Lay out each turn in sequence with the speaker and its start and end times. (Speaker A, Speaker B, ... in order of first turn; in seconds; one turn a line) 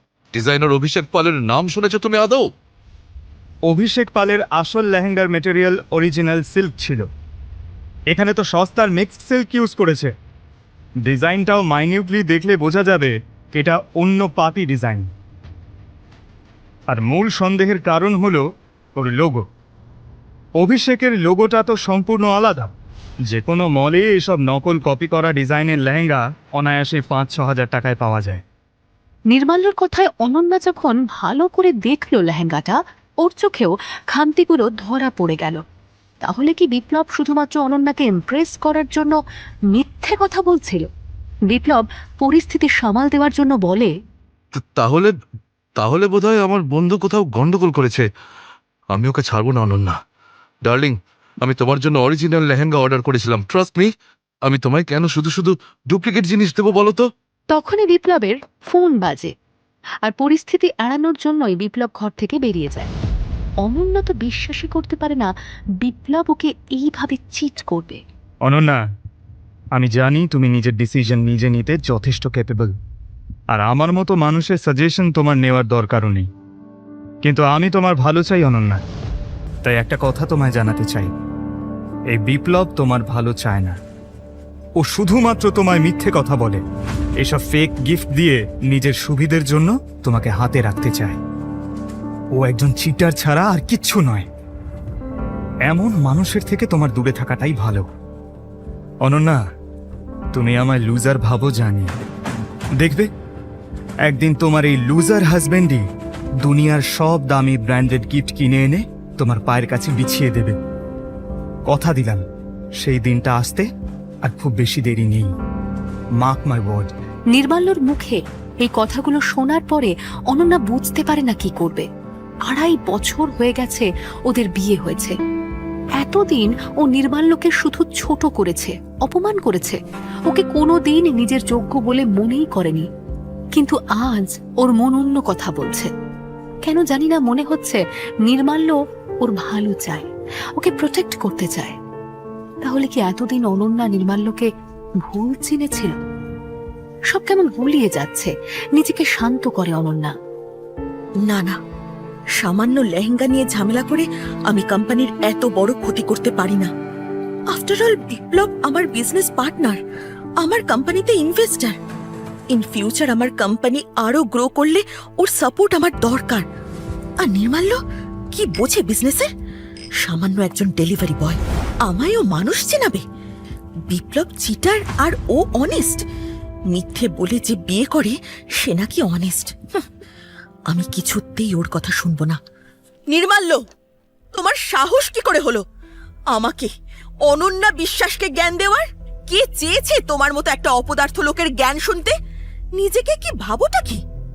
Speaker A: 0.3-2.5
Speaker B: 3.7-7.1
Speaker B: 8.1-10.1
Speaker B: 11.1-15.1
Speaker B: 16.9-18.4
Speaker B: 19.0-19.4
Speaker B: 20.6-22.7
Speaker B: 23.3-28.4
Speaker C: 29.3-35.6
Speaker C: 36.2-39.2
Speaker C: 39.7-40.9
Speaker C: 41.5-43.9
Speaker A: 44.5-45.1
Speaker A: 45.8-48.0
Speaker A: 48.9-50.0
Speaker A: 50.6-53.9
Speaker A: 54.4-57.1
Speaker C: 57.5-59.3
Speaker C: 60.0-62.9
Speaker C: 63.6-68.0
Speaker B: 68.5-68.8
Speaker B: 69.8-72.7
Speaker B: 73.5-76.3
Speaker B: 77.2-78.8
Speaker B: 79.7-81.1
Speaker B: 82.1-83.8
Speaker B: 84.8-86.6
Speaker B: 87.2-91.2
Speaker B: 92.4-94.3
Speaker B: 95.7-97.9
Speaker B: 99.0-99.4
Speaker B: 100.3-101.9
Speaker B: 102.8-103.1
Speaker B: 104.1-105.8
Speaker B: 106.4-110.6
Speaker B: 111.7-112.2
Speaker B: 112.8-113.7
Speaker B: 114.2-115.3
Speaker B: 116.2-116.9
Speaker C: 117.3-121.9
Speaker C: 122.5-125.2
Speaker C: 126.0-132.9
Speaker C: 133.5-135.9
Speaker C: 136.6-141.8
Speaker C: 142.6-144.5
Speaker C: 145.0-146.0
Speaker C: 147.1-150.1
Speaker D: 151.2-151.6
Speaker D: 152.4-156.7
Speaker D: 157.5-159.8
Speaker D: 160.4-161.8
Speaker D: 162.5-166.4
Speaker D: 167.2-167.8
Speaker D: 168.3-169.3
Speaker D: 170.0-173.0
Speaker D: 173.9-176.0
Speaker D: 176.7-179.8
Speaker D: 180.7-182.4
Speaker D: 183.1-183.6
Speaker D: 184.3-185.6
Speaker D: 186.3-186.7
Speaker D: 187.3-192.2
Speaker D: 192.8-194.0